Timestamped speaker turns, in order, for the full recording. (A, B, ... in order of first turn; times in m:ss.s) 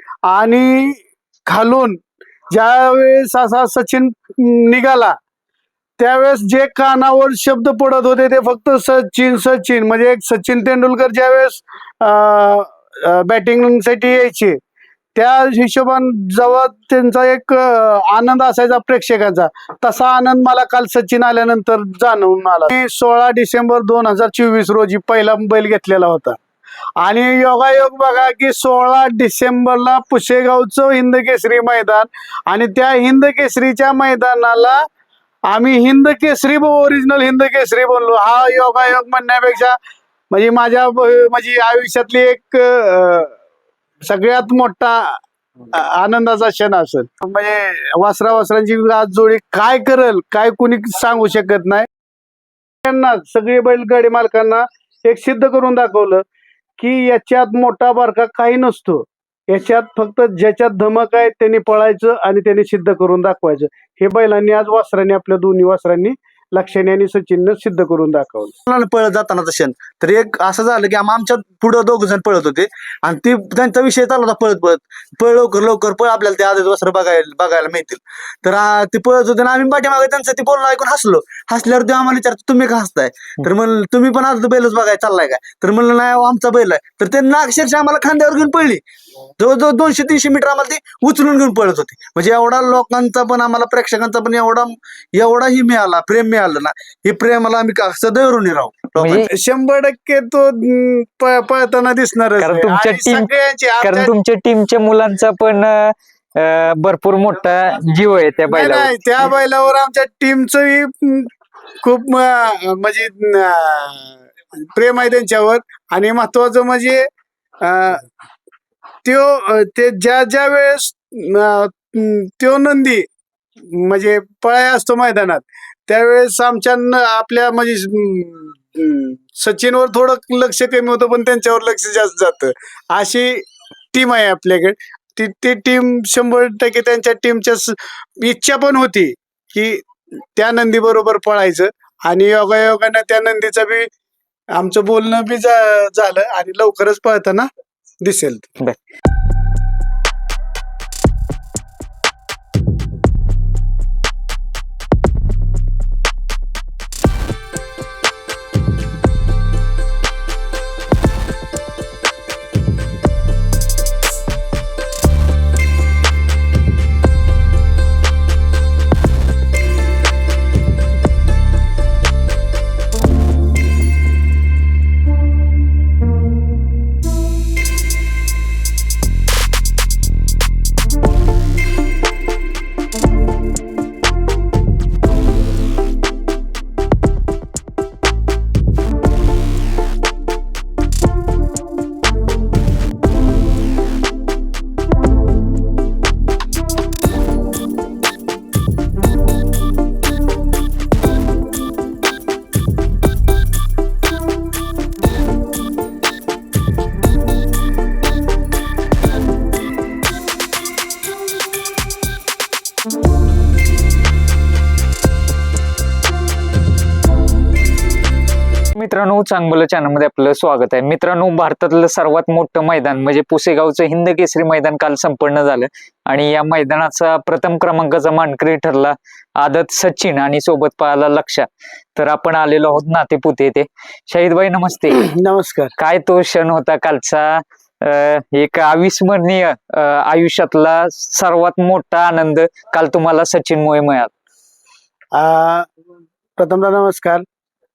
0:00.3-0:02.0 A
0:02.5-0:05.2 A
0:06.0-0:14.6 A
0:15.1-0:26.4 A
0:27.0-0:34.8 A
0:35.5-0:39.8 A
0:40.3-0:43.3 A
0:44.0-0:45.2 A
0:45.7-0:51.9 A
0:52.8-0:56.2 A
0:56.8-1:08.5 A
1:08.7-1:28.8 B
1:29.4-1:39.3 B
1:39.0-1:39.3 C
1:39.2-1:44.1 A
1:42.4-1:43.3 C
1:43.8-1:48.9 C
1:48.5-1:51.3 A
1:51.8-1:57.1 A
1:57.6-1:58.0 A
1:59.0-2:03.0 A
2:03.7-2:13.4 A
2:13.9-2:23.9 A
2:24.5-2:27.5 A
2:28.0-2:28.5 A
3:38.7-3:55.0 C
3:55.0-3:55.7 A
3:55.8-4:04.1 C
4:05.1-4:05.7 A
4:06.4-4:07.2 A